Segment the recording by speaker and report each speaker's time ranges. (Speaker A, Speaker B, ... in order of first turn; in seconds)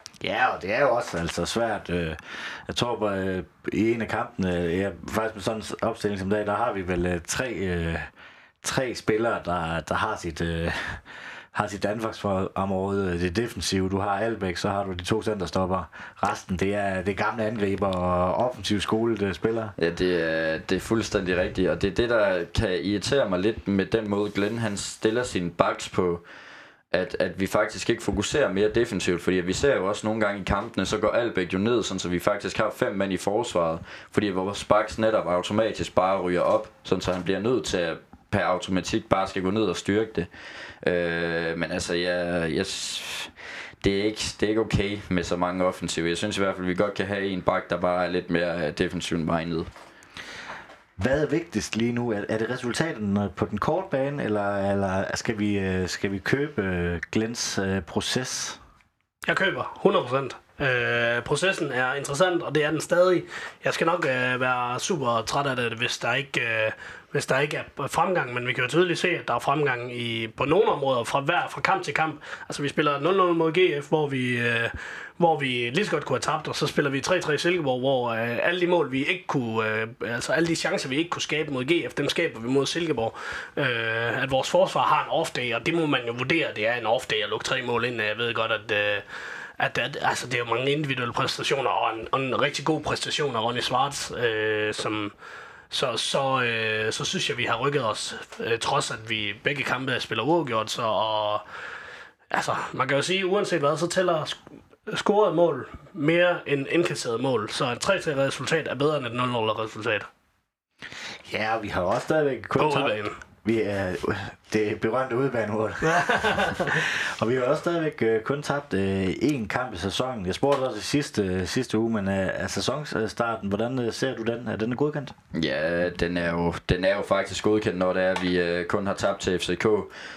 Speaker A: 0.2-8.1, 8.6-19.7, 51.0-58.6, 111.2-125.2
Speaker B: 19.8-26.2, 26.9-40.3, 40.8-49.7, 125.3-129.9
Speaker C: 59.2-89.0, 89.6-95.1, 95.7-101.4, 102.3-110.1, 112.6-113.2, 115.9-116.8